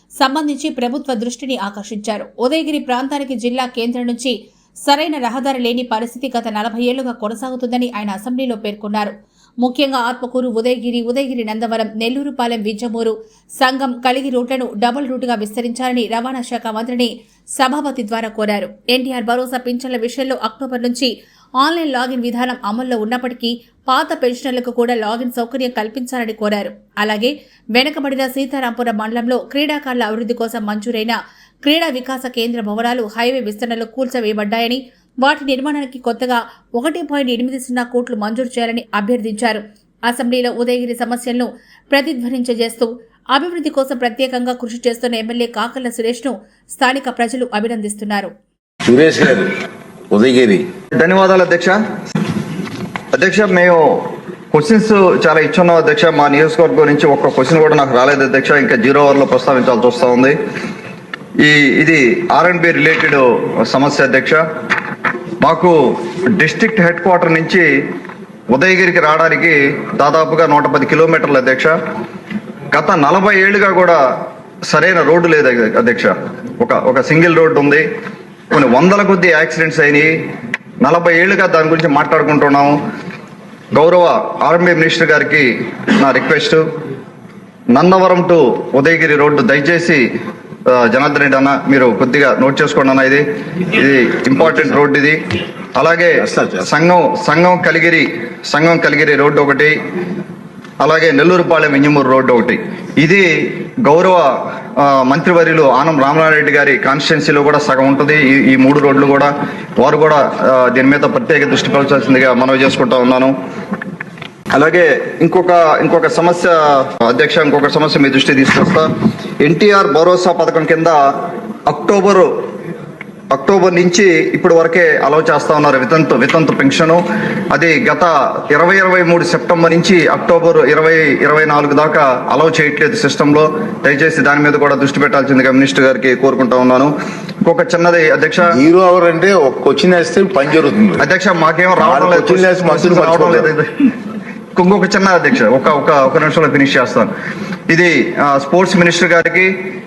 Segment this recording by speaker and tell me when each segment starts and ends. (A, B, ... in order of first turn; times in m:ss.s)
0:00.2-0:04.3 A
0:04.8-0:48.3 A
0:48.8-0:49.5 B
0:50.1-0:50.6 B
0:51.0-0:51.8 C
0:53.1-1:00.4 C
1:01.4-1:04.4 C
1:05.4-1:07.7 C
1:08.5-1:11.8 C
1:12.7-1:14.0 C
1:14.6-1:17.8 C
1:18.5-1:20.1 C
1:20.8-1:22.8 C
1:23.7-1:26.6 C
1:27.7-1:30.0 C
1:30.7-1:35.2 C
1:34.4-1:34.8 B
1:35.8-1:39.8 C
1:36.2-1:36.7 B
1:40.8-1:53.3 C
1:54.5-1:58.9 C
1:59.4-2:01.0 C
2:01.7-2:02.3 C
2:03.3-2:16.9 C
2:17.4-2:18.5 C
2:18.5-2:21.0 B
2:21.0-2:23.7 C
2:21.8-2:23.5 B
2:24.6-2:27.1 C
2:27.7-2:29.5 C